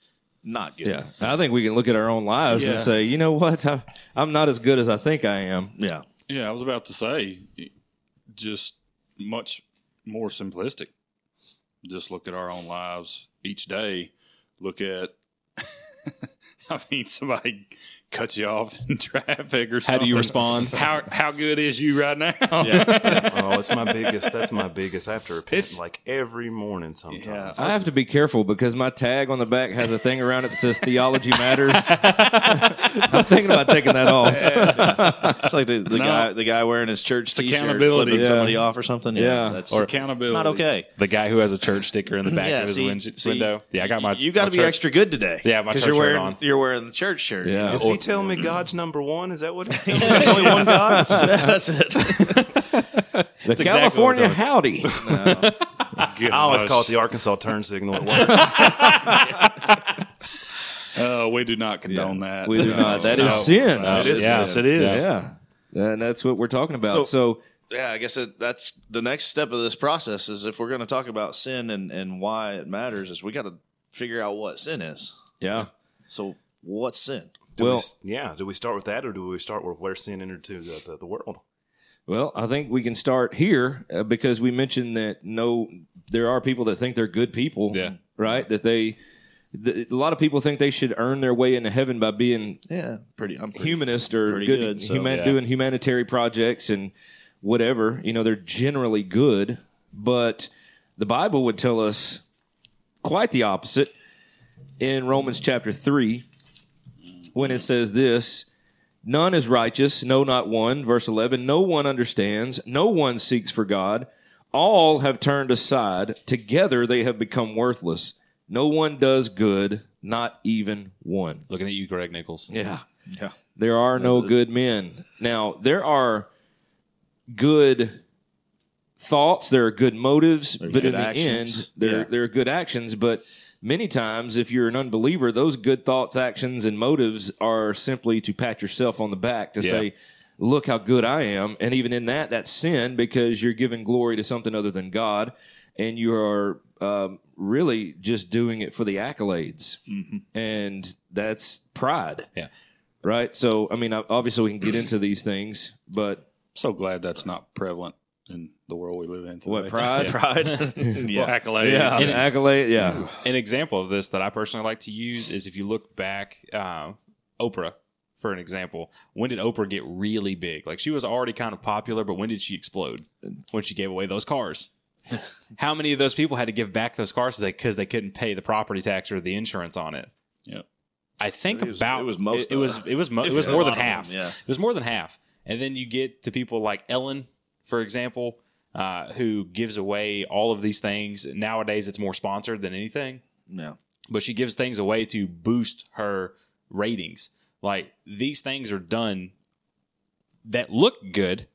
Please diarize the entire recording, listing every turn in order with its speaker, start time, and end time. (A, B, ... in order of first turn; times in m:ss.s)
0:00.4-0:01.0 A
0:00.8-0:05.7 B
0:02.5-0:02.9 C
0:02.6-0:02.9 A
0:05.8-0:06.0 A
0:06.3-0:07.7 C
0:08.3-0:10.9 C
0:11.8-0:16.1 C
0:16.7-0:24.5 C
0:19.8-0:20.8 D
0:22.6-0:23.2 A
0:22.8-0:27.8 E
0:25.5-0:25.8 C
0:27.1-0:27.6 C
0:27.3-0:27.6 A
0:27.6-0:35.5 B
0:32.0-0:32.3 D
0:34.2-0:36.3 C
0:34.5-0:40.9 A
0:37.3-0:38.6 C
0:38.1-0:39.6 B
0:39.7-0:40.7 C
0:41.0-0:44.8 D
0:42.3-0:48.5 A
0:45.4-0:46.4 D
0:47.4-0:47.9 B
0:47.7-0:51.5 E
0:49.8-0:52.4 A
0:50.5-0:51.3 B
0:52.1-0:52.5 D
0:53.4-0:55.2 B
0:53.5-0:54.4 D
0:55.0-0:55.5 A
0:55.2-0:56.1 D
0:56.0-0:57.0 C
0:56.3-0:58.9 E
0:58.3-0:59.4 B
0:58.6-0:59.1 D
0:58.8-0:59.1 C
1:00.9-1:05.1 C
1:01.9-1:04.7 A
1:02.4-1:04.2 B
1:02.9-1:04.8 E
1:03.3-1:05.0 D
1:04.8-1:07.4 B
1:06.8-1:07.1 A
1:07.7-1:15.1 A
1:15.4-1:15.7 B
1:16.1-1:17.5 A
1:17.6-1:21.4 E
1:17.6-1:17.9 B
1:22.1-1:29.0 B
1:29.5-1:32.6 B
1:32.7-1:35.1 A
1:33.6-1:42.2 B
1:35.1-1:35.4 D
1:43.0-1:43.9 B
1:44.8-1:46.3 B
1:47.3-1:48.5 B
1:49.0-2:01.4 B
2:01.5-2:02.5 D
2:02.5-2:02.8 B
2:03.1-2:03.4 A
2:03.6-2:06.3 B
2:04.0-2:04.3 A
2:07.3-2:08.0 B
2:09.0-2:29.8 B
2:10.6-2:12.1 A
2:19.6-2:19.9 D
2:29.9-2:30.2 A
2:30.3-2:32.3 B
2:33.0-2:36.2 B
2:36.6-2:40.1 C
2:39.5-2:40.2 B
2:39.8-2:41.4 A
2:40.0-2:40.7 D
2:41.2-2:42.3 C
2:41.6-2:43.1 B
2:42.0-2:42.3 D
2:42.8-2:54.7 D
2:55.6-3:00.1 D
3:01.2-3:13.2 D
3:01.5-3:04.4 A
3:13.5-3:13.8 A
3:14.1-3:19.3 D
3:20.4-3:21.5 D